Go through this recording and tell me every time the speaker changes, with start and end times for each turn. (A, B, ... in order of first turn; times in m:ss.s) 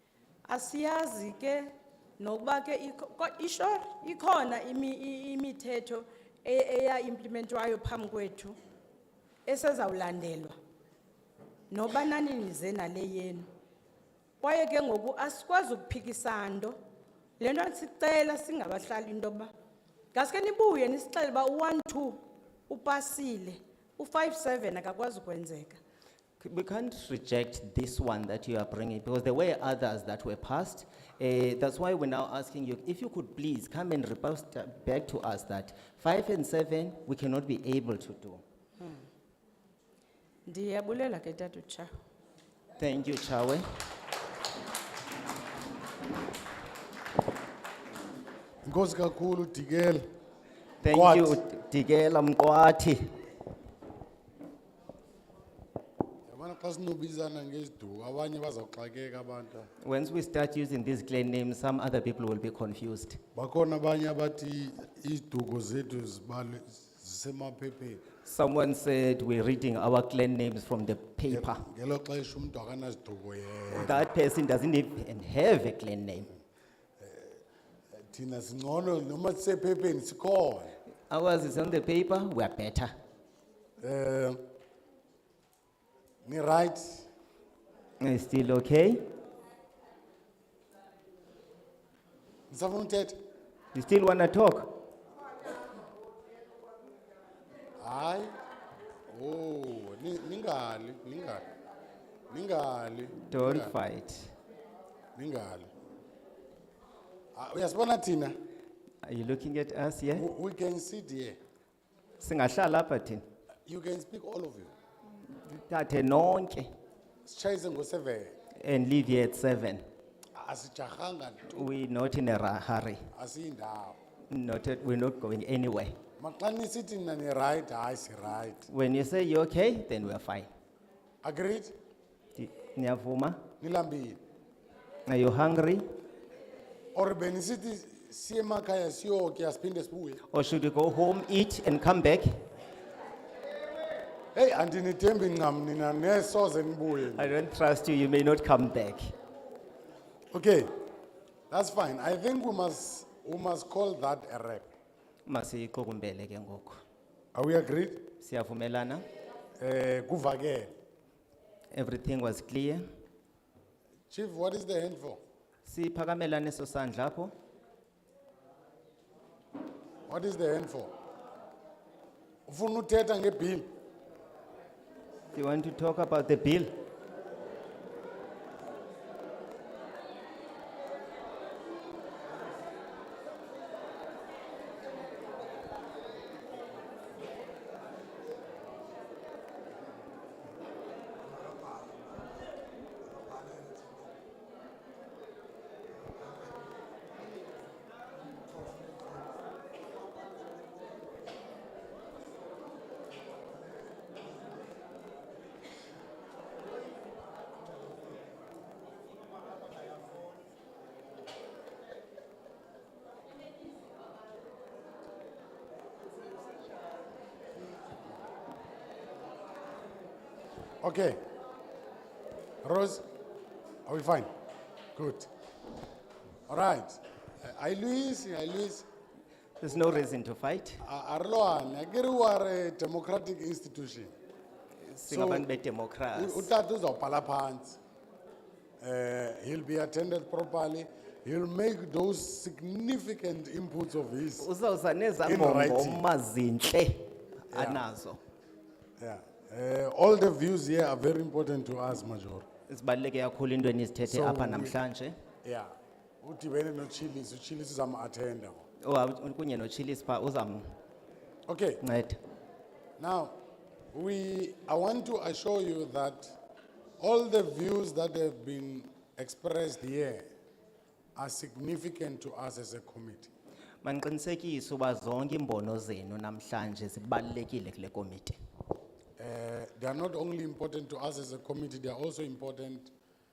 0:00.5-0:08.6 A
0:09.5-0:10.6 A
0:11.7-0:13.5 A
0:14.4-0:16.8 A
0:17.4-0:19.5 A
0:20.1-0:25.8 A
0:26.4-0:38.4 B
0:40.5-0:41.9 A
0:42.8-0:43.6 B
0:48.6-0:50.0 C
0:50.8-0:53.1 B
0:50.8-0:51.4 C
0:56.3-0:59.7 C
0:59.8-1:03.2 B
1:03.4-1:08.0 C
1:08.2-1:11.6 B
1:11.3-1:14.1 C
1:13.7-1:16.3 B
1:17.0-1:17.4 C
1:18.0-1:20.7 C
1:21.1-1:22.9 B
1:23.8-1:24.4 C
1:26.2-1:27.1 C
1:28.0-1:29.1 B
1:32.5-1:33.2 C
1:33.7-1:34.7 B
1:37.8-1:38.3 C
1:39.1-1:41.5 C
1:42.3-1:43.8 C
1:43.3-1:44.3 B
1:45.2-1:45.7 C
1:47.4-1:48.3 C
1:49.0-1:50.3 B
1:50.2-1:51.4 C
1:52.2-1:53.2 B
1:53.7-1:54.7 C
1:55.4-1:56.7 B
1:57.3-1:58.4 C
1:58.6-1:59.8 B
2:00.4-2:01.6 C
2:01.5-2:03.1 B
2:03.1-2:04.0 C
2:04.3-2:06.0 B
2:06.2-2:08.7 C
2:08.7-2:10.5 B
2:11.2-2:11.7 C
2:12.4-2:13.4 B
2:13.6-2:14.2 C
2:15.1-2:15.8 B
2:17.0-2:20.2 C
2:20.3-2:22.4 B
2:24.4-2:27.4 C
2:27.1-2:29.1 B
2:30.3-2:30.7 C
2:31.5-2:34.7 C
2:35.3-2:36.8 B
2:37.3-2:38.1 C
2:38.2-2:39.0 B
2:39.6-2:40.7 C
2:41.7-2:42.8 B
2:44.1-2:45.2 C
2:45.6-2:47.3 B
2:50.1-2:50.9 C
2:52.5-2:53.7 C
2:55.3-2:56.8 B
3:40.8-3:41.3 C
3:42.6-3:43.0 C
3:43.9-3:44.3 C
3:45.0-3:45.3 C
3:46.5-3:48.9 C
3:49.6-3:50.8 B
3:50.8-3:54.2 C
3:54.8-3:56.5 B
3:55.1-3:55.5 C
3:56.2-3:57.8 C
3:58.8-4:04.5 C
4:04.4-4:08.2 B
4:05.2-4:06.1 C
4:07.5-4:07.8 C
4:09.0-4:12.5 C
4:12.7-4:15.2 B
4:14.1-4:14.8 C
4:15.4-4:18.6 C
4:18.8-4:20.8 B
4:21.5-4:21.8 C
4:21.8-4:22.2 B
4:23.0-4:23.4 C
4:23.9-4:26.4 C
4:27.0-4:30.3 C
4:31.2-4:33.3 C
4:33.8-4:38.4 B
4:39.2-4:42.9 C